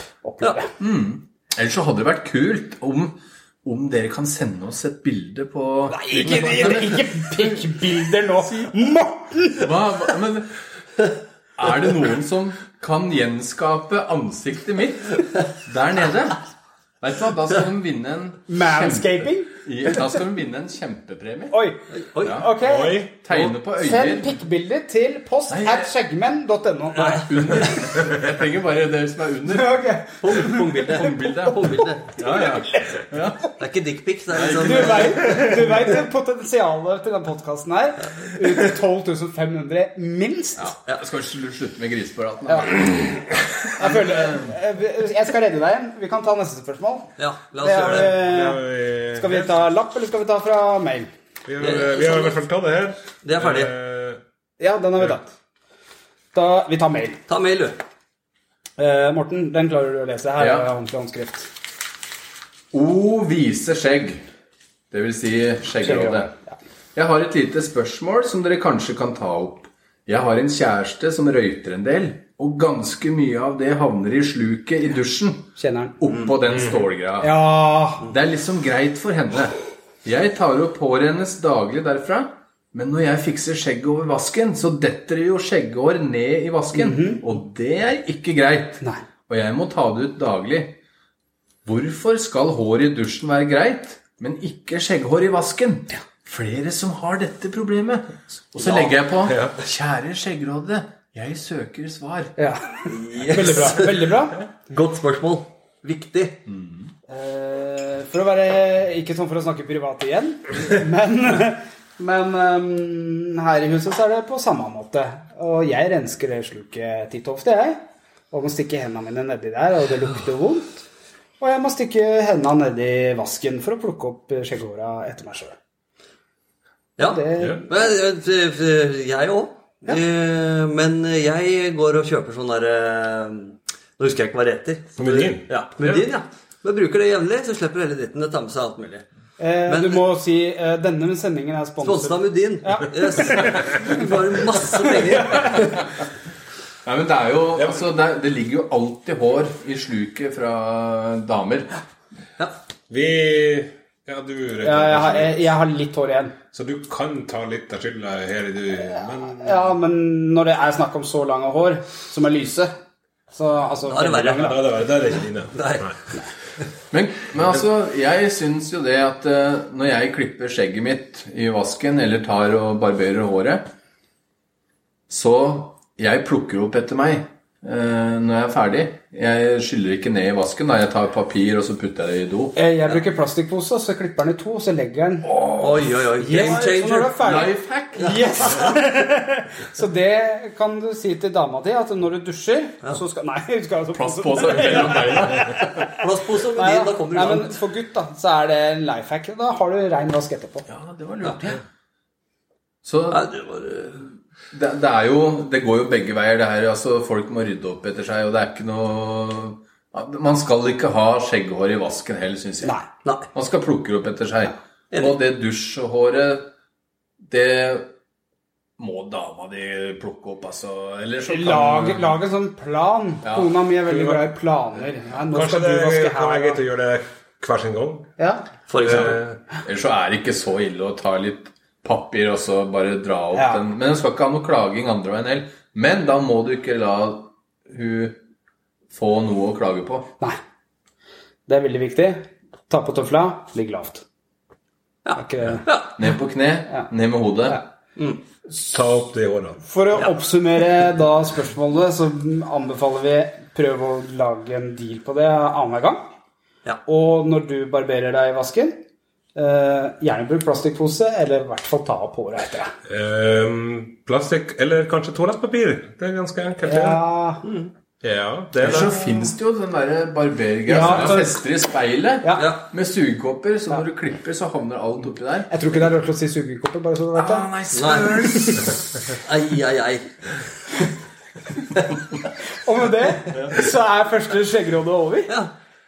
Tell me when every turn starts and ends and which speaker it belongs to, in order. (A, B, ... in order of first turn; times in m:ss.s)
0:00.2-0:00.7 A
0:00.8-0:07.6 B
0:05.9-0:09.7 A
0:06.4-0:06.8 C
0:09.5-0:11.0 B
0:11.6-0:16.4 B
0:17.0-0:21.6 B
0:18.5-0:19.6 A
0:21.5-0:23.1 A
0:21.9-0:22.4 C
0:22.2-0:22.5 B
0:22.6-0:23.1 D
0:23.2-0:24.3 B
0:23.8-0:27.6 A
0:25.5-0:25.9 B
0:27.2-0:29.8 B
0:29.5-0:33.0 A
0:30.2-0:32.1 C
0:30.8-0:33.5 B
0:33.6-0:35.8 C
0:34.3-0:35.5 B
0:34.6-0:40.7 A
0:40.6-0:44.6 B
0:42.4-0:51.1 A
0:47.2-0:48.2 C
0:48.0-0:49.5 D
0:51.4-0:54.2 D
0:51.6-0:52.4 C
0:53.2-0:53.7 C
0:54.6-0:55.3 A
0:56.3-0:57.2 A
0:57.3-0:57.8 C
0:58.8-1:01.5 A
1:00.4-1:00.7 B
1:02.7-1:04.2 B
1:04.9-1:06.3 B
1:05.8-1:06.6 A
1:06.9-1:17.3 B
1:15.6-1:16.0 A
1:17.2-1:18.1 A
1:18.0-1:30.8 B
1:26.7-1:27.2 A
1:31.6-1:42.4 B
1:38.6-1:39.0 C
1:39.2-1:39.6 D
1:42.4-1:44.4 A
1:42.8-1:46.4 C
1:46.5-1:46.9 B
1:47.1-2:00.8 A
2:01.4-2:05.6 A
2:07.0-2:19.0 C
2:07.0-2:07.7 A
2:15.0-2:16.1 D
2:19.4-2:24.2 A
2:19.7-2:20.0 C
2:21.8-2:25.8 C
2:24.8-2:25.6 A
2:26.8-2:31.7 B
2:27.5-2:27.8 D
2:32.9-2:35.5 D
2:34.6-2:36.3 A
2:36.5-2:39.7 D
2:38.8-2:42.7 A
2:43.3-2:44.6 A
2:43.8-2:45.0 C
2:44.4-2:46.0 D
2:45.5-2:45.9 C
2:46.9-2:53.6 B
2:55.1-3:02.5 B
3:02.5-3:05.3 A
3:05.3-3:06.6 B
3:05.5-3:08.6 C
3:06.2-3:20.7 A
3:07.2-3:08.7 B
3:13.9-3:15.9 B
3:15.9-3:17.6 C
3:20.7-3:21.6 B
3:22.8-3:23.3 B
3:23.1-3:24.0 C
3:24.5-3:32.8 B
3:33.3-3:36.5 B
3:37.3-3:37.9 B
3:38.8-3:42.2 B
3:41.3-3:46.6 A
3:43.2-3:43.5 B
3:43.9-3:44.2 D
3:45.3-3:48.1 D
3:48.2-3:48.4 A
3:48.7-3:49.2 C
3:48.8-3:49.4 D
3:49.6-3:58.2 B
3:53.3-3:53.6 A
3:58.9-4:00.1 B
4:01.5-4:04.0 A
4:05.0-4:05.9 C
4:05.1-4:05.6 A
4:05.9-4:07.6 B
4:08.6-4:09.6 D
4:09.6-4:16.1 A
4:16.8-4:18.8 A
4:19.3-4:22.7 A
4:22.8-4:27.0 D
4:26.6-4:27.4 A
4:27.4-4:27.7 C
4:28.0-4:28.9 D
4:28.6-4:35.5 B
4:30.7-4:31.4 A
4:32.2-4:32.5 A
4:35.5-4:37.5 A
4:37.2-4:38.8 B
4:37.7-4:40.4 C
4:42.5-4:45.3 A